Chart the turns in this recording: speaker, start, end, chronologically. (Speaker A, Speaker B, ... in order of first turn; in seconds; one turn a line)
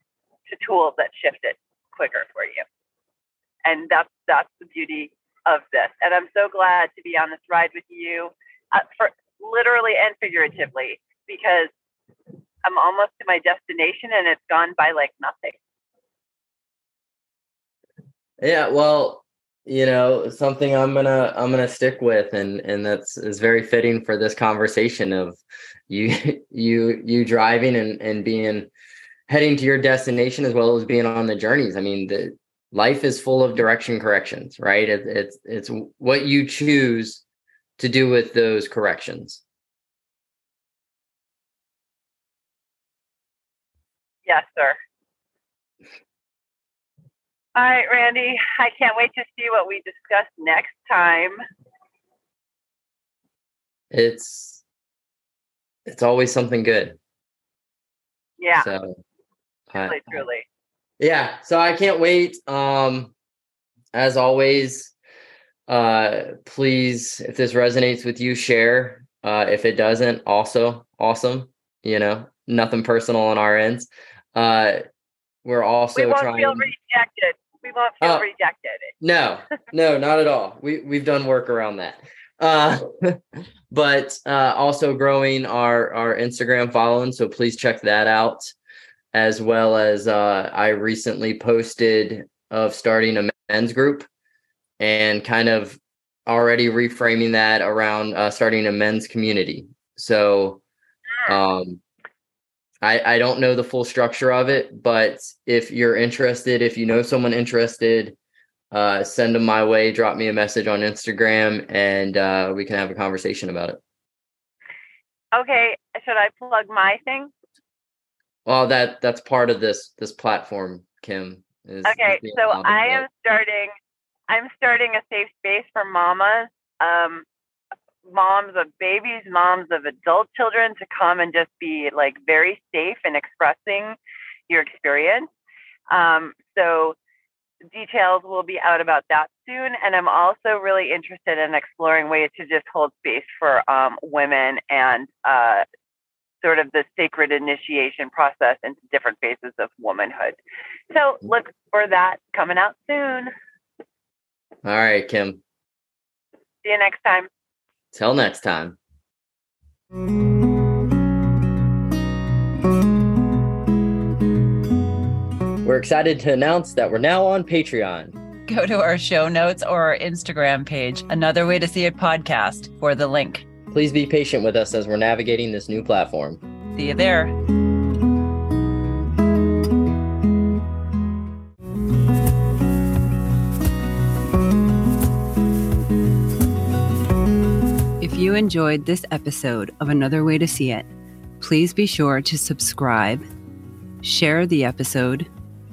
Speaker A: 0.5-2.6
Speaker A: 3.6-11.7
Speaker A: 12.6-15.6
Speaker B: 18.4-28.7
Speaker B: 29.3-37.2
Speaker B: 37.8-39.4
Speaker A: 44.2-44.8
Speaker A: 47.5-51.4
Speaker B: 53.9-54.6
Speaker B: 55.9-57.0
Speaker A: 58.4-58.7
Speaker B: 58.6-59.0
Speaker B: 59.7-60.2
Speaker A: 59.8-60.4
Speaker B: 61.0-63.1
Speaker B: 63.9-64.9
Speaker B: 65.7-74.8
Speaker B: 75.4-76.7
Speaker A: 75.9-78.9
Speaker B: 78.0-78.2
Speaker B: 79.0-88.5
Speaker B: 89.1-94.1
Speaker B: 94.8-100.6
Speaker B: 101.2-101.8
Speaker B: 102.8-108.2
Speaker B: 108.7-113.8
Speaker A: 115.3-117.3
Speaker B: 118.5-123.0
Speaker A: 121.8-123.7
Speaker A: 124.3-127.2
Speaker A: 128.1-134.0
Speaker A: 134.5-135.3
Speaker A: 135.9-137.0
Speaker A: 137.7-145.6
Speaker A: 146.4-150.4
Speaker A: 150.9-153.3
Speaker B: 154.6-155.4
Speaker A: 156.6-157.3
Speaker B: 157.9-158.8
Speaker B: 165.6-168.1
Speaker A: 169.7-173.4
Speaker B: 173.7-176.4
Speaker A: 176.8-177.3
Speaker C: 188.0-190.9
Speaker C: 191.4-193.3
Speaker C: 194.0-195.3